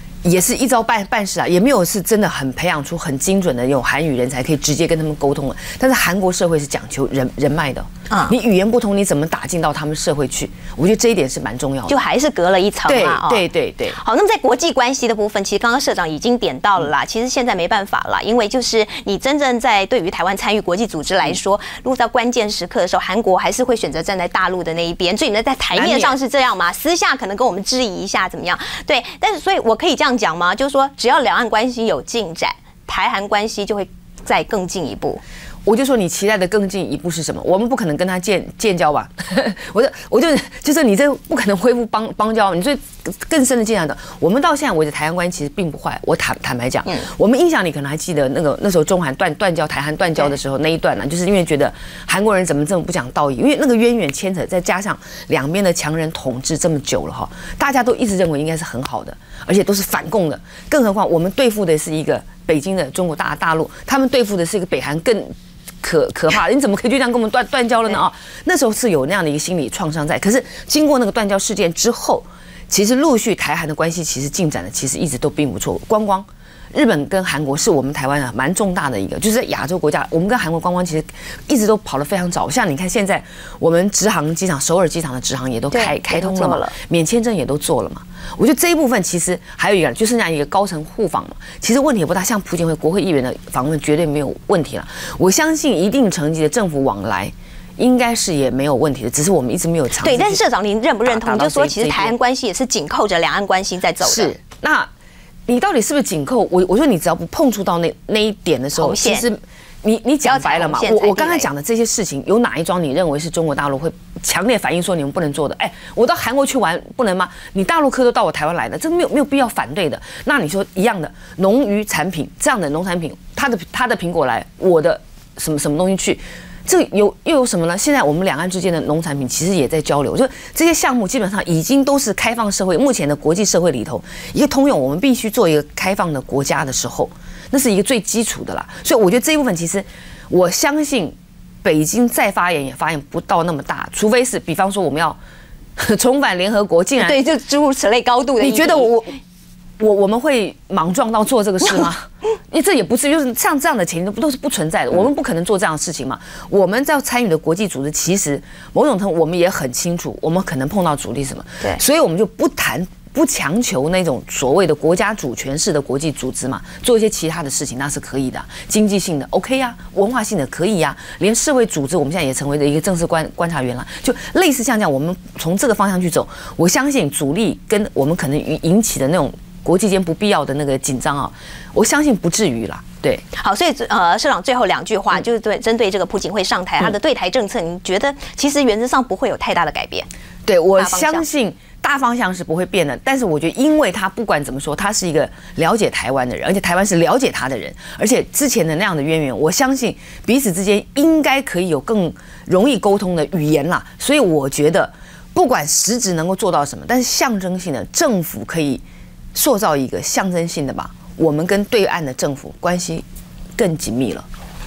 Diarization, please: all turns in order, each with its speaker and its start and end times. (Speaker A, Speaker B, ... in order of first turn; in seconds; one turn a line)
Speaker A: 0.2-12.0
Speaker B: 11.9-13.4
Speaker A: 12.9-14.0
Speaker B: 14.0-35.2
Speaker A: 25.7-26.1
Speaker A: 35.6-100.4
Speaker B: 85.7-86.7
Speaker B: 100.0-104.4
Speaker A: 101.0-102.2
Speaker A: 104.0-104.9
Speaker A: 105.5-145.2
Speaker B: 108.8-109.2
Speaker B: 110.2-111.5
Speaker A: 145.8-147.2
Speaker B: 147.0-148.9
Speaker A: 148.4-149.2
Speaker A: 149.8-183.2
Speaker B: 183.4-190.1
Speaker A: 190.4-208.8
Speaker B: 190.8-191.2
Speaker A: 209.3-213.0
Speaker A: 213.6-214.3